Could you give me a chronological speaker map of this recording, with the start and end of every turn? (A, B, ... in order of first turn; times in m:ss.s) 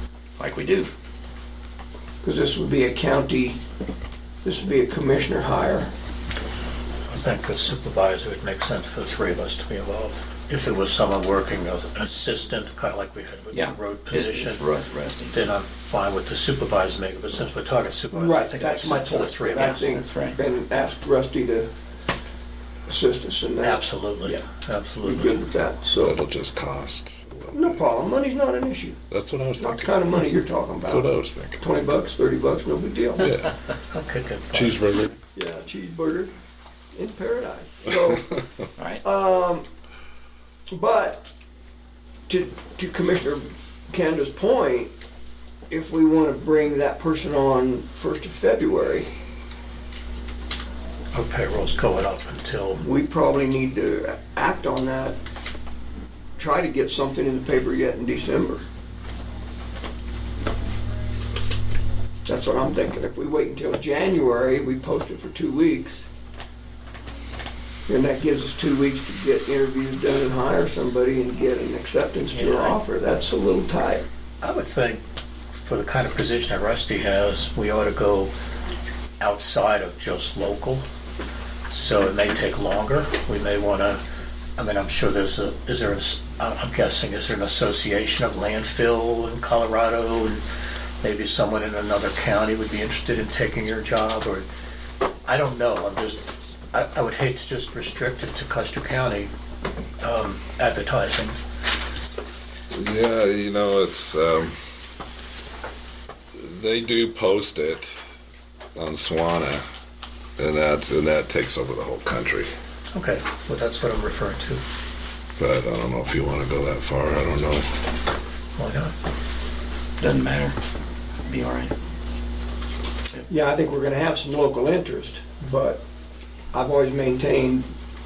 0:00.4-0:00.9 A
0:02.2-0:03.6 B
0:04.4-0:05.9 B
0:07.1-0:14.7 C
0:13.5-0:15.5 A
0:15.3-0:19.8 C
0:18.1-0:21.7 B
0:19.6-0:20.4 A
0:22.9-0:24.4 B
0:23.6-0:25.4 C
0:25.0-0:26.2 B
0:26.0-0:27.8 D
0:27.5-0:29.0 B
0:29.1-0:30.2 D
0:29.6-0:33.3 B
0:30.8-0:31.6 D
0:33.2-0:33.5 D
0:33.9-0:34.8 C
0:34.5-0:35.1 D
0:35.3-0:36.3 B
0:36.9-0:38.4 B
0:38.8-0:39.0 A
0:39.0-0:39.7 B
0:40.7-0:41.3 B
0:42.3-0:44.9 B
0:45.7-0:49.1 B
0:51.1-0:52.8 C
0:52.8-0:55.2 B
0:56.4-0:58.6 B
1:02.2-1:06.0 B
1:07.9-1:14.0 B
1:12.3-1:12.8 C
1:14.4-1:18.3 C
1:19.2-1:20.8 C
1:21.7-1:24.0 C
1:24.6-1:30.4 C
1:31.0-1:34.5 C
1:35.2-1:39.3 C
1:40.0-1:41.4 C
1:42.7-1:44.5 D
1:46.3-1:47.9 D
1:48.7-1:49.6 D
1:50.4-1:52.5 D
1:52.9-1:54.6 C
1:55.4-1:57.7 D
1:58.6-1:58.9 C
2:00.0-2:00.6 A
2:01.2-2:01.7 A
2:03.3-2:05.8 B
2:06.5-2:07.7 B